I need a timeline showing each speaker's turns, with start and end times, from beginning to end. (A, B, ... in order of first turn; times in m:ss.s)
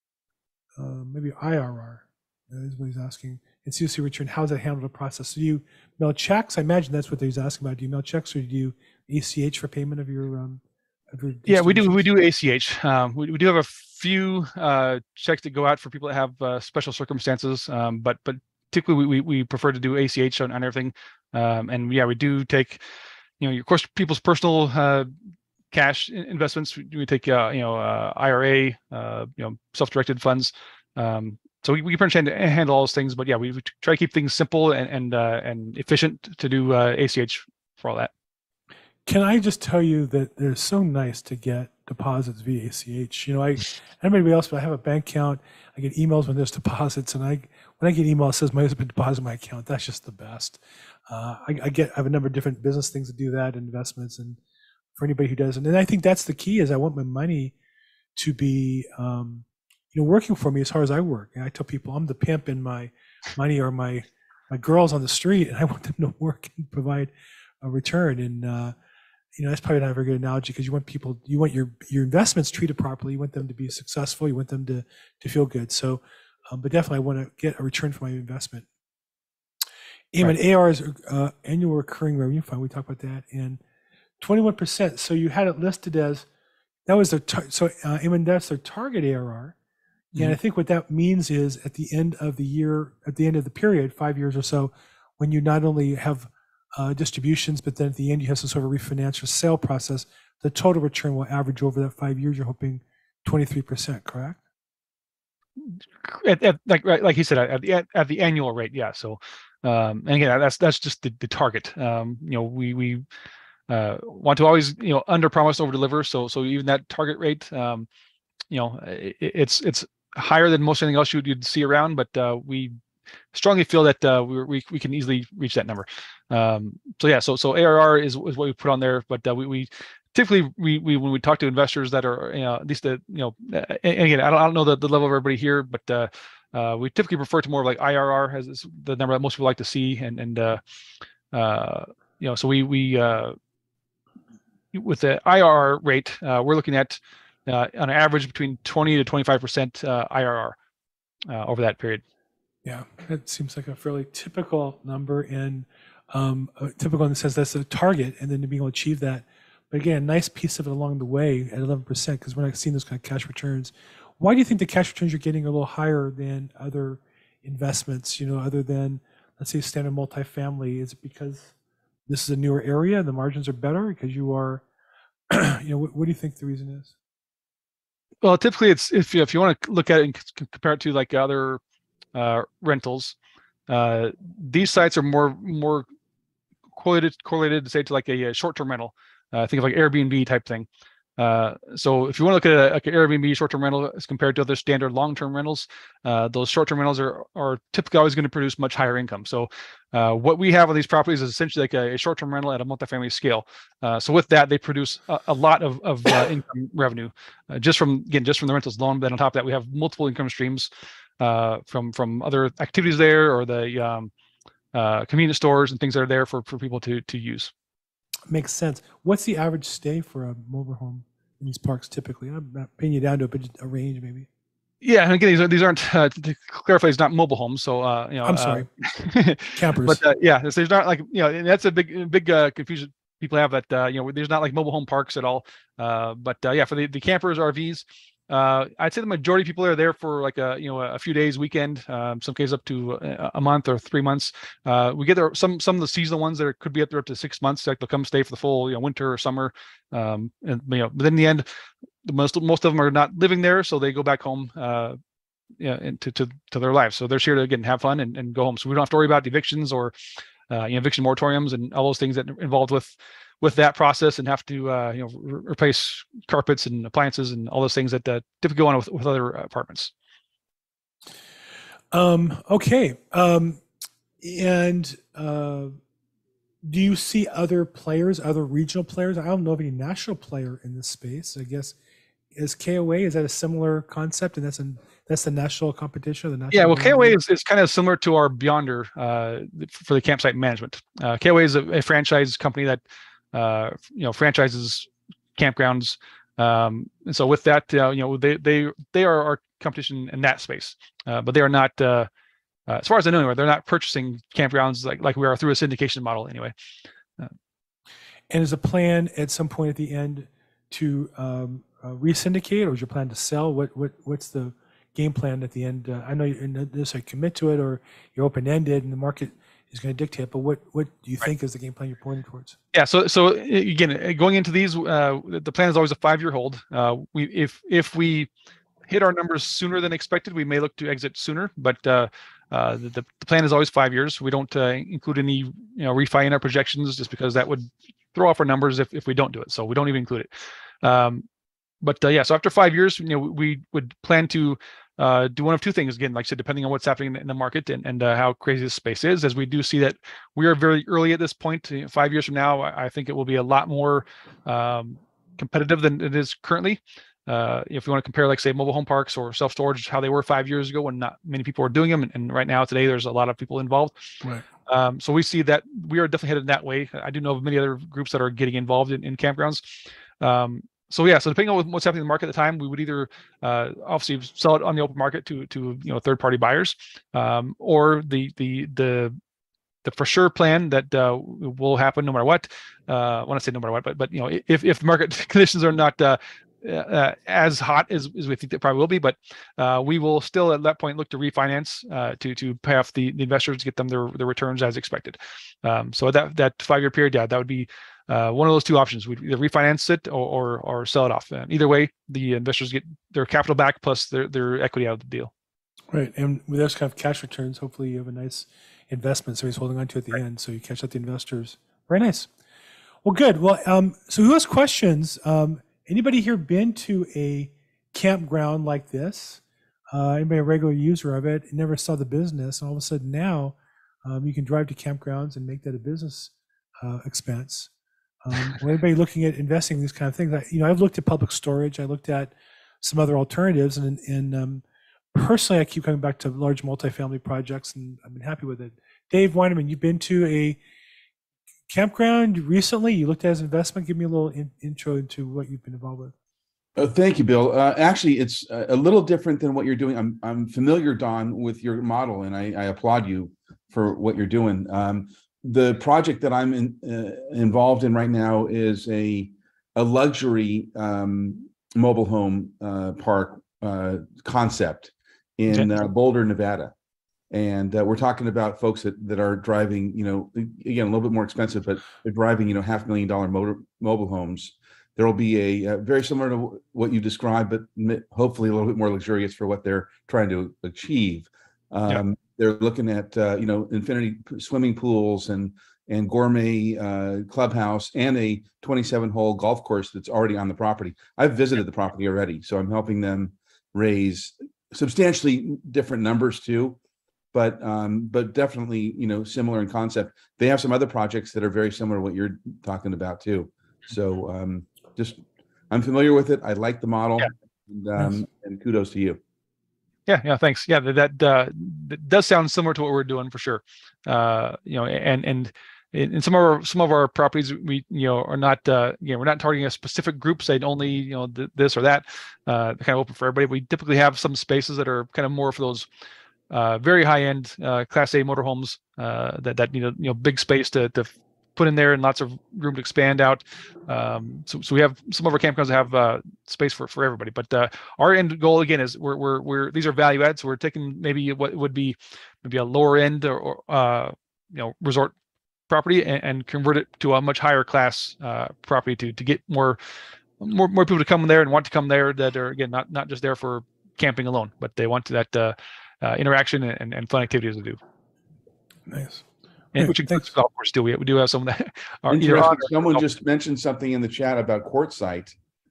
0:00.8-0:12.1 A
0:11.5-0:22.8 B
0:23.4-0:25.1 B
0:25.7-0:38.1 B
0:39.1-0:54.4 A
0:55.0-0:57.5 A
0:58.2-1:07.1 A
1:07.6-1:08.7 A
1:09.4-1:18.7 A
1:20.1-1:23.6 A
1:24.2-1:26.3 A
1:26.9-1:29.6 A
1:30.2-1:44.4 A
1:45.6-1:53.0 B
1:53.7-1:57.9 B
1:58.5-2:02.8 B
2:03.3-2:20.6 B
2:21.3-2:23.4 B
2:24.7-2:30.6 B
2:31.3-2:32.0 B
2:32.6-2:51.5 A
2:52.1-2:54.6 A
2:55.3-2:56.9 A
2:58.2-3:01.6 B
3:02.1-3:03.2 B
3:03.7-3:05.9 B
3:06.7-3:30.7 B
3:31.2-3:34.1 B
3:34.7-3:37.5 B
3:38.3-3:44.3 A
3:44.8-4:11.5 B
3:48.2-3:48.7 A
3:49.5-3:50.0 A
4:12.0-4:15.0 B
4:15.6-4:19.9 B
4:20.5-4:29.9 B
4:31.9-4:33.6 A
4:34.2-4:35.8 A
4:36.6-4:41.8 A
4:42.3-4:47.2 A
4:46.5-4:52.8 B
4:53.3-5:02.1 B
5:02.7-5:06.5 B
5:08.3-5:22.6 A
5:22.7-5:28.3 B
5:28.9-5:40.3 B
5:40.8-5:41.2 B
5:41.8-6:04.0 B
6:04.7-6:19.2 B
6:19.8-6:45.3 B
6:45.9-6:52.3 A
6:53.0-7:07.7 A
7:08.2-7:20.6 A
7:21.7-7:26.1 A
7:26.8-7:46.7 C
7:47.3-8:16.8 C
8:17.3-8:29.2 C
8:30.1-8:45.9 B
8:46.5-9:05.2 B
9:05.7-9:09.8 B
9:10.4-9:17.8 B
9:18.9-9:19.2 A
9:19.7-9:23.1 B
9:19.8-9:20.2 A
9:22.1-9:25.4 C